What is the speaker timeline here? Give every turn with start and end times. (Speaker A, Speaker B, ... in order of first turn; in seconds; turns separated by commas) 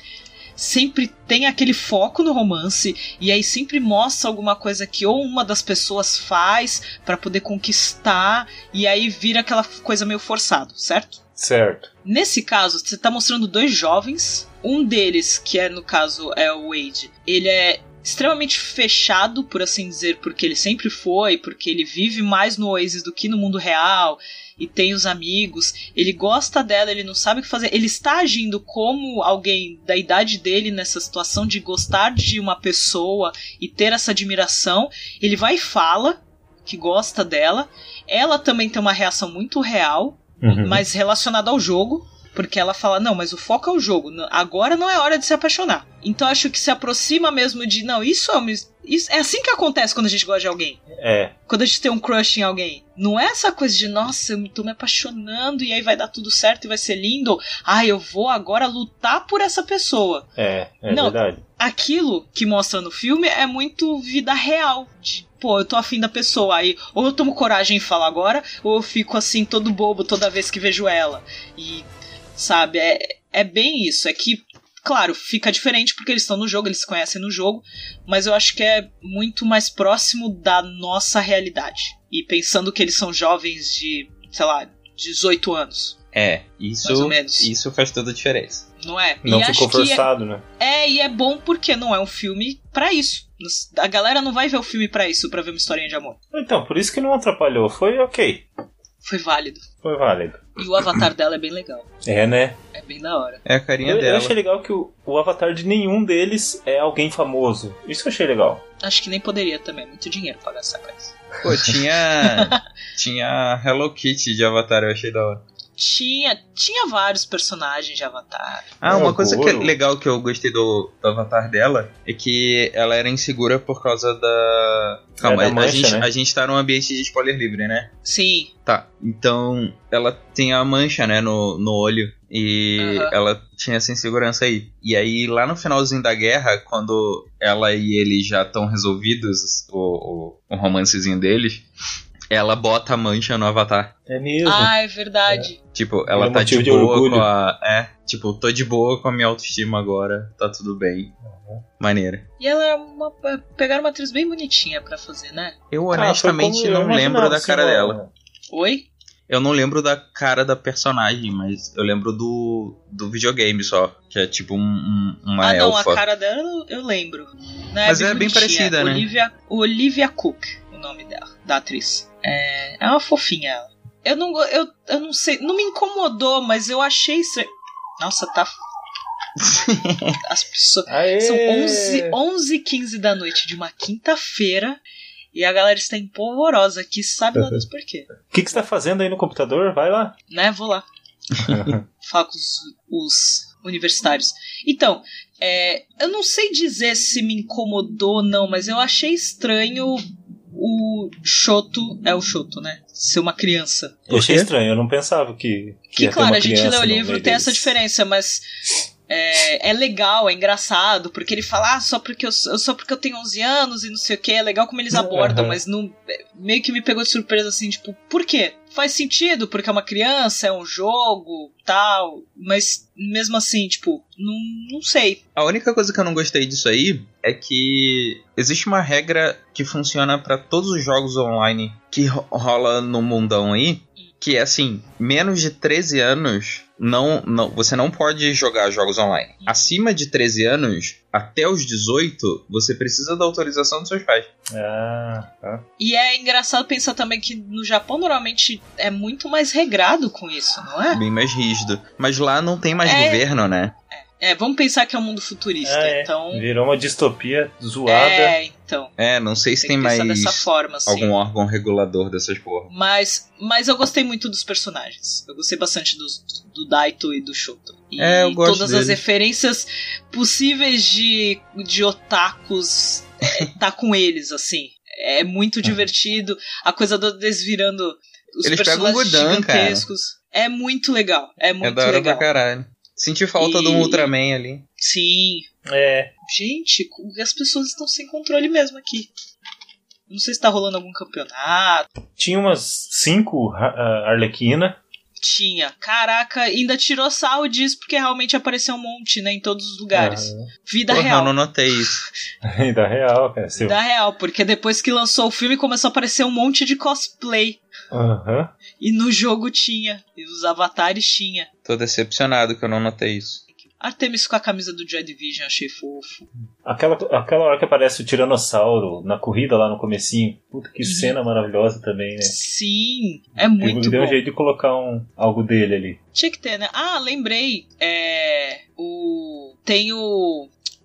Speaker A: 0.6-11.2, Speaker B: 11.4-11.9, Speaker A: 12.0-50.8, Speaker B: 40.4-40.8, Speaker B: 50.9-51.3, Speaker A: 51.5-60.3, Speaker B: 60.4-61.4, Speaker A: 60.9-86.0, Speaker C: 86.1-88.6, Speaker A: 86.8-87.5, Speaker A: 88.8-90.1, Speaker B: 89.2-90.4, Speaker A: 90.6-96.2, Speaker B: 96.3-98.4, Speaker A: 99.0-99.6, Speaker B: 99.8-101.0, Speaker A: 100.6-101.9, Speaker B: 102.0-102.6, Speaker A: 102.7-103.4, Speaker C: 103.4-104.4, Speaker B: 103.8-108.6, Speaker A: 108.8-111.1, Speaker C: 111.4-115.4, Speaker A: 112.2-112.6, Speaker A: 115.8-118.7, Speaker C: 118.8-127.9, Speaker B: 118.8-119.7, Speaker B: 125.2-126.1, Speaker A: 128.0-128.5, Speaker C: 128.7-141.6, Speaker A: 132.8-133.1, Speaker C: 142.3-143.9, Speaker B: 144.1-144.7, Speaker A: 144.4-145.6, Speaker C: 145.7-151.1, Speaker B: 146.1-147.3, Speaker B: 151.2-151.6, Speaker C: 151.8-152.2, Speaker A: 152.4-155.5, Speaker C: 155.7-158.0, Speaker B: 155.9-158.1, Speaker A: 158.5-158.8, Speaker C: 159.3-166.0, Speaker A: 165.4-177.5, Speaker C: 167.8-169.1, Speaker A: 178.0-178.5, Speaker C: 179.4-180.2, Speaker A: 180.2-184.8, Speaker B: 180.9-182.2, Speaker A: 185.3-188.1, Speaker B: 188.3-190.1, Speaker A: 190.3-190.8, Speaker B: 191.4-191.8, Speaker A: 192.0-204.0, Speaker C: 204.1-204.5, Speaker B: 204.1-207.7, Speaker A: 205.9-208.4, Speaker A: 209.1-225.2, Speaker B: 214.9-215.6, Speaker C: 225.3-244.3, Speaker A: 239.4-239.7, Speaker B: 244.5-245.6, Speaker A: 245.8-251.0, Speaker C: 250.9-253.7, Speaker A: 252.8-253.2, Speaker A: 253.9-256.4, Speaker B: 255.6-258.3, Speaker A: 257.9-258.9, Speaker C: 259.0-262.7, Speaker A: 259.6-261.1, Speaker A: 262.7-282.2, Speaker C: 268.0-269.0, Speaker C: 278.4-279.9, Speaker C: 281.6-284.6, Speaker A: 283.4-284.1, Speaker A: 284.8-285.5, Speaker B: 285.7-286.1, Speaker A: 286.3-289.1, Speaker A: 290.1-291.9, Speaker B: 292.2-294.8, Speaker A: 295.2-301.3, Speaker B: 299.9-300.5, Speaker C: 300.9-302.0, Speaker B: 302.4-303.8, Speaker A: 303.6-307.6, Speaker B: 307.9-308.5, Speaker A: 308.8-311.5, Speaker C: 311.6-313.4, Speaker A: 313.6-316.2, Speaker B: 316.6-322.4, Speaker A: 320.8-321.1, Speaker A: 322.2-324.2, Speaker B: 323.6-326.0, Speaker A: 326.1-330.5